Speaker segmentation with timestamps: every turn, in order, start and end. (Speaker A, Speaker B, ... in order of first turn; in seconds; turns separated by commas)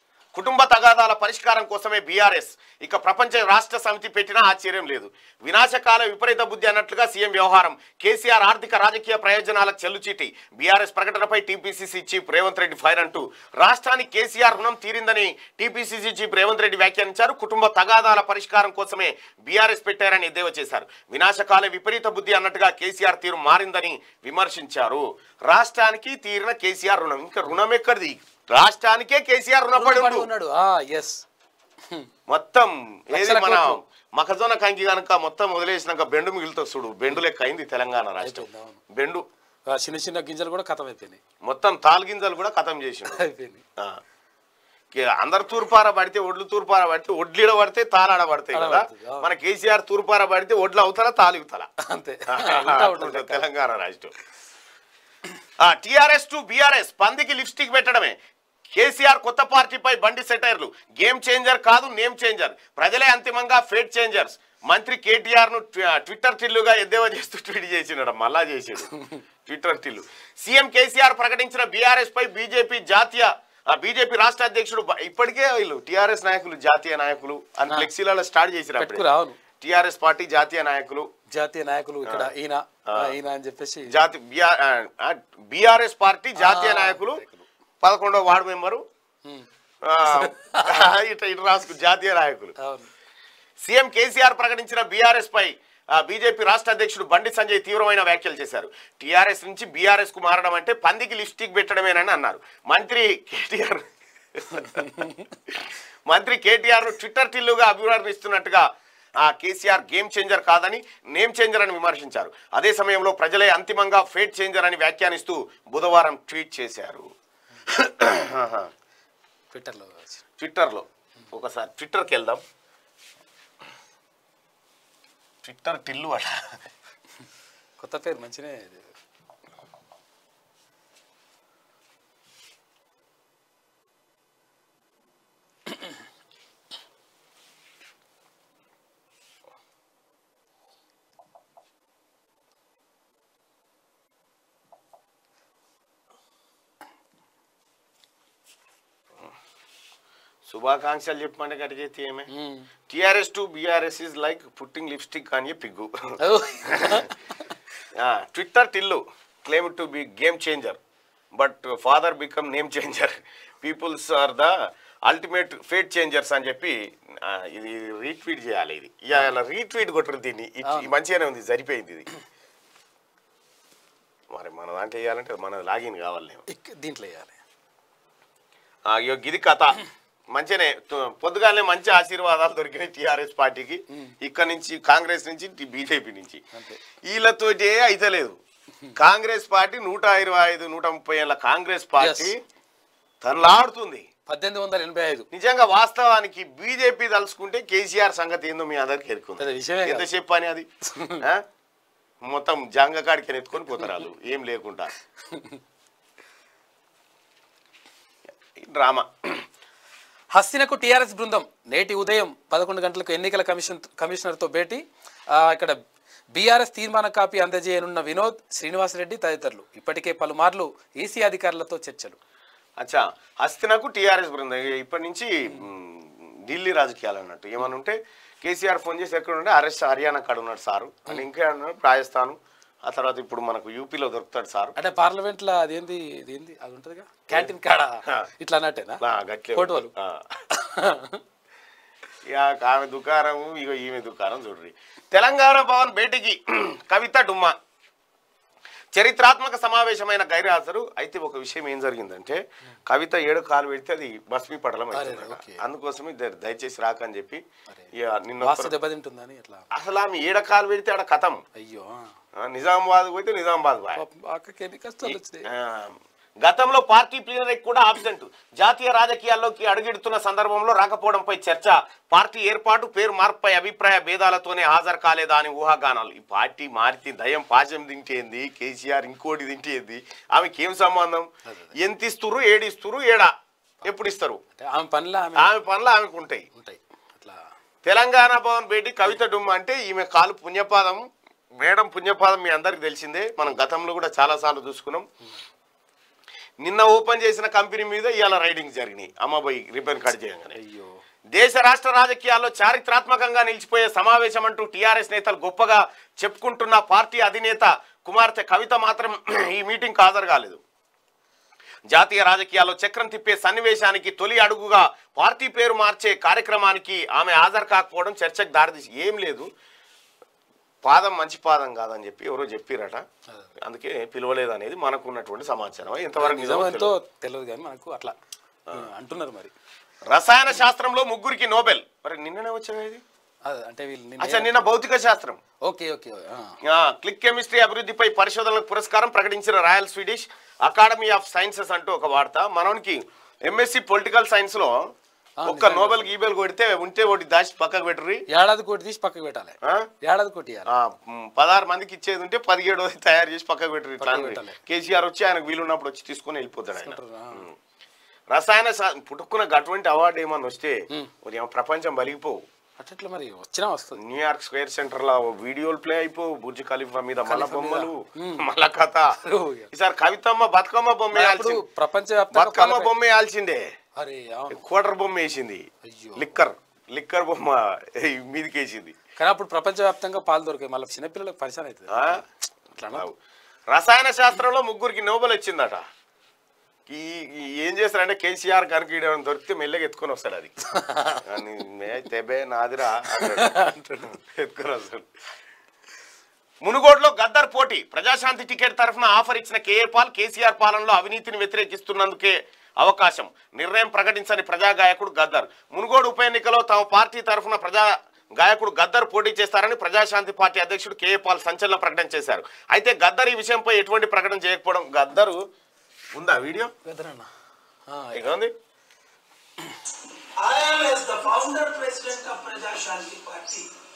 Speaker A: 0.3-30.3, Speaker B: 29.8-31.2, Speaker A: 32.3-39.2, Speaker B: 33.1-33.8, Speaker B: 38.2-38.8, Speaker B: 39.7-41.2, Speaker A: 41.4-43.2, Speaker B: 43.1-43.6, Speaker A: 44.9-51.7, Speaker B: 48.5-49.3, Speaker B: 51.8-53.4, Speaker A: 52.3-54.1, Speaker A: 55.6-58.2, Speaker A: 58.7-68.9, Speaker A: 69.5-79.0, Speaker B: 78.8-79.4, Speaker A: 79.6-81.1, Speaker B: 81.3-83.9, Speaker A: 82.1-82.3, Speaker A: 82.9-83.2, Speaker A: 83.9-87.2, Speaker B: 86.4-87.5, Speaker A: 87.8-88.8, Speaker A: 89.8-92.5, Speaker B: 90.0-90.9, Speaker B: 92.6-92.9, Speaker A: 93.6-117.1, Speaker B: 104.6-105.3, Speaker A: 117.7-118.7, Speaker B: 119.5-120.2, Speaker A: 120.4-122.4, Speaker A: 125.4-126.6, Speaker B: 127.8-128.9, Speaker A: 150.5-152.3, Speaker B: 152.3-152.7, Speaker A: 152.9-157.1, Speaker B: 156.2-157.5, Speaker A: 157.9-160.8, Speaker A: 161.3-164.5, Speaker A: 165.1-172.1, Speaker A: 174.3-176.4, Speaker B: 176.5-177.4, Speaker A: 178.9-179.8, Speaker A: 180.3-186.4, Speaker B: 186.5-186.8, Speaker A: 187.1-188.4, Speaker A: 189.0-192.4, Speaker B: 192.0-192.3, Speaker A: 193.2-194.1, Speaker B: 194.3-195.3, Speaker A: 195.3-200.7, Speaker B: 199.4-200.1, Speaker B: 200.9-201.2, Speaker A: 202.2-204.9, Speaker B: 205.3-205.6, Speaker A: 208.6-209.5, Speaker B: 210.3-215.8, Speaker B: 216.3-222.2, Speaker A: 222.8-234.8, Speaker B: 234.8-239.0, Speaker A: 239.0-240.4, Speaker B: 239.6-239.9, Speaker B: 240.5-241.2, Speaker A: 242.3-247.6, Speaker A: 248.9-258.8, Speaker B: 254.9-255.6, Speaker B: 257.7-259.7, Speaker A: 259.7-261.4, Speaker B: 261.6-262.1, Speaker A: 262.4-264.0, Speaker B: 264.0-265.5, Speaker A: 265.0-283.3, Speaker B: 281.4-281.8, Speaker A: 283.9-284.4, Speaker B: 284.6-285.6, Speaker A: 285.4-286.5, Speaker B: 286.6-287.4, Speaker A: 287.9-291.0, Speaker A: 291.6-295.1, Speaker A: 296.6-300.6, Speaker B: 300.5-300.9, Speaker A: 301.4-310.6, Speaker A: 311.9-319.5, Speaker A: 320.8-323.1, Speaker A: 323.6-326.9, Speaker B: 326.2-328.1, Speaker B: 328.7-329.5, Speaker A: 330.1-333.0, Speaker B: 333.5-334.6, Speaker A: 334.2-335.4, Speaker B: 335.6-336.6, Speaker A: 336.6-344.9, Speaker B: 345.4-346.1, Speaker A: 345.5-348.2, Speaker B: 348.3-350.7, Speaker A: 349.6-349.9, Speaker A: 350.7-357.6, Speaker B: 354.0-354.6, Speaker B: 356.7-357.4, Speaker A: 358.3-362.4, Speaker B: 362.8-364.0, Speaker A: 364.0-369.1, Speaker B: 367.3-368.5, Speaker B: 369.2-369.7, Speaker A: 369.7-371.6, Speaker B: 371.1-372.9, Speaker A: 372.3-373.6, Speaker B: 374.0-374.6, Speaker A: 374.5-375.6, Speaker B: 375.8-376.3, Speaker A: 376.1-379.0, Speaker B: 379.2-383.1, Speaker A: 381.9-382.2, Speaker A: 383.7-385.8, Speaker A: 386.9-390.5, Speaker B: 390.7-391.2, Speaker A: 391.2-395.1, Speaker B: 393.1-393.7, Speaker A: 396.6-415.4, Speaker A: 416.1-416.7, Speaker B: 416.8-417.3, Speaker B: 417.9-418.3, Speaker A: 418.1-418.5, Speaker C: 420.4-423.7